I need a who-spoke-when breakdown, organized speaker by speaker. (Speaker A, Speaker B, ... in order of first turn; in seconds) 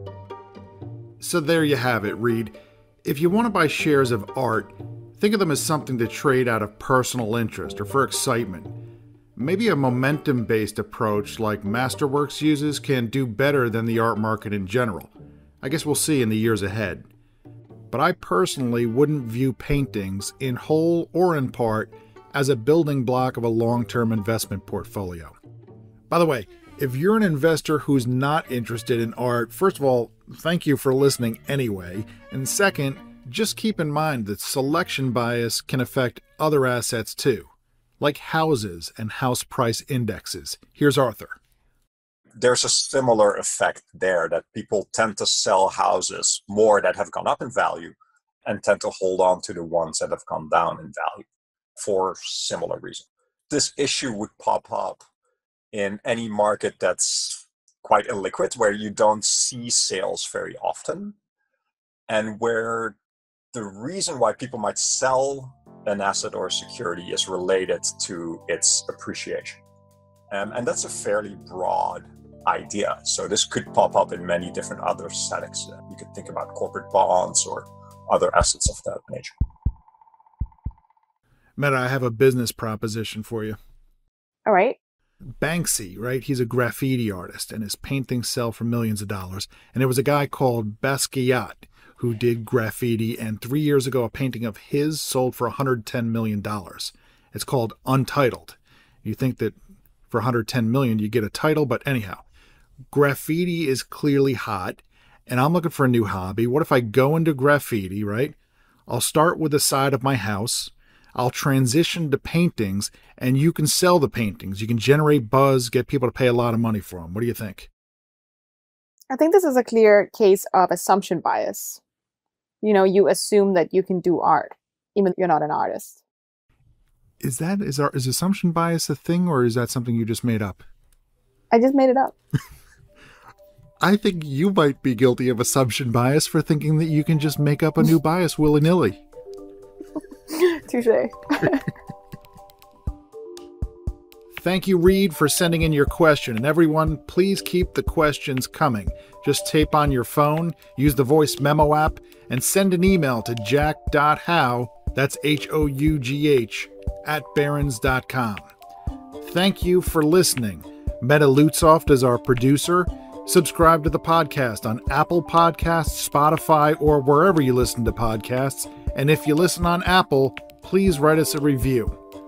Speaker A: 1.2-8.8, 9.4-17.1, 17.9-25.4, 26.1-41.4, 81.6-83.6, 85.4-99.6, 100.1-102.2, 102.9-108.4, 108.9-117.7, 127.2-130.6, 133.8-139.0, 144.4-158.5, 159.2-172.0
Speaker B: 42.4-51.3, 51.8-55.0, 55.7-61.2, 62.1-63.0, 63.5-69.6, 70.3-79.3
Speaker C: 84.5-84.8, 119.1-121.8, 122.6-126.0, 131.5-132.2, 140.3-141.7